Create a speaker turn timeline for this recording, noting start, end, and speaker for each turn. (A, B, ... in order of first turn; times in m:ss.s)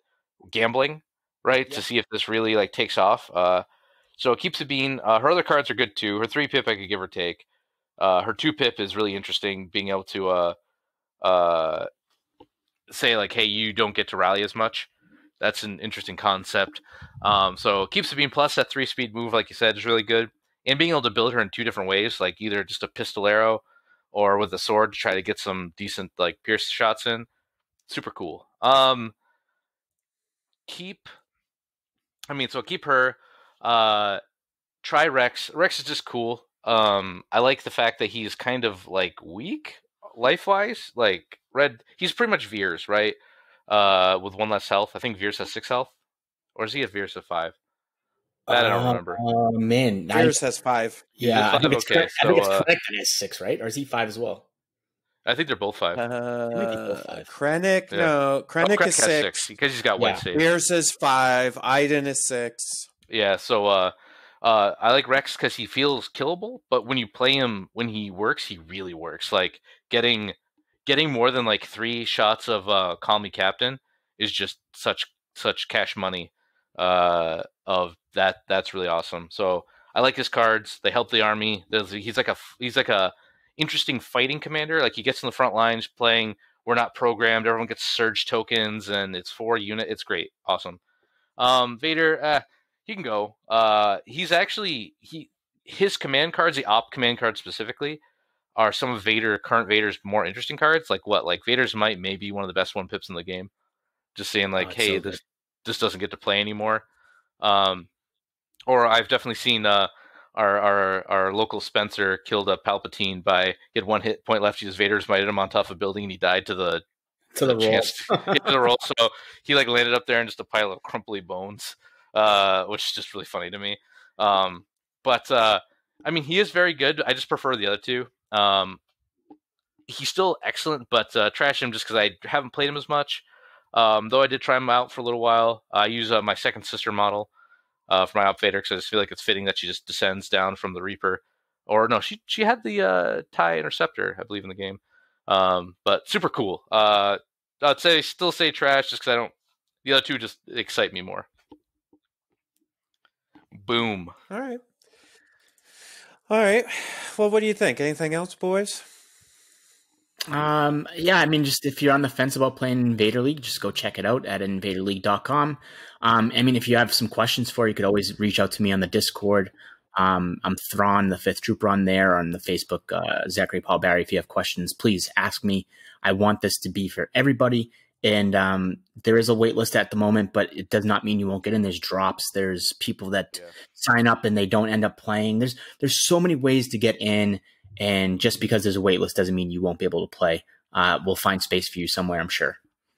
0:00.5-0:03.6 A
0:04.2-0:07.4 A
0:08.0-0:10.6 A
0:11.2-0:11.9 A
0:12.9-0:27.3 A
0:27.9-0:29.1 A
0:30.7-0:31.1 A
0:32.3-0:34.2 A
0:34.8-0:43.2 A
0:43.7-0:45.9 A
0:46.6-0:47.5 A
0:48.5-0:50.4 B
0:48.5-0:49.2 A
0:50.1-0:51.1 C
0:51.2-0:54.4 B
0:51.2-0:52.6 A
0:55.2-0:56.0 A
0:56.0-0:59.5 C
0:56.5-0:57.2 B
0:57.9-1:00.4 A
1:00.0-1:00.2 B
1:00.3-1:02.9 C
1:03.1-1:30.8 A
1:31.4-1:38.0 A
1:38.6-1:43.5 A
1:44.1-1:46.8 A
1:44.6-1:45.2 B
1:47.4-1:47.9 A
1:48.7-1:56.8 A
1:57.3-1:58.6 B
1:57.4-2:08.8 A
2:09.9-2:17.3 A
2:17.9-2:29.3 A
2:29.8-2:31.3 A
2:33.5-2:34.1 A
2:34.3-2:34.6 C
2:36.3-2:38.8 C
2:40.3-3:12.6 B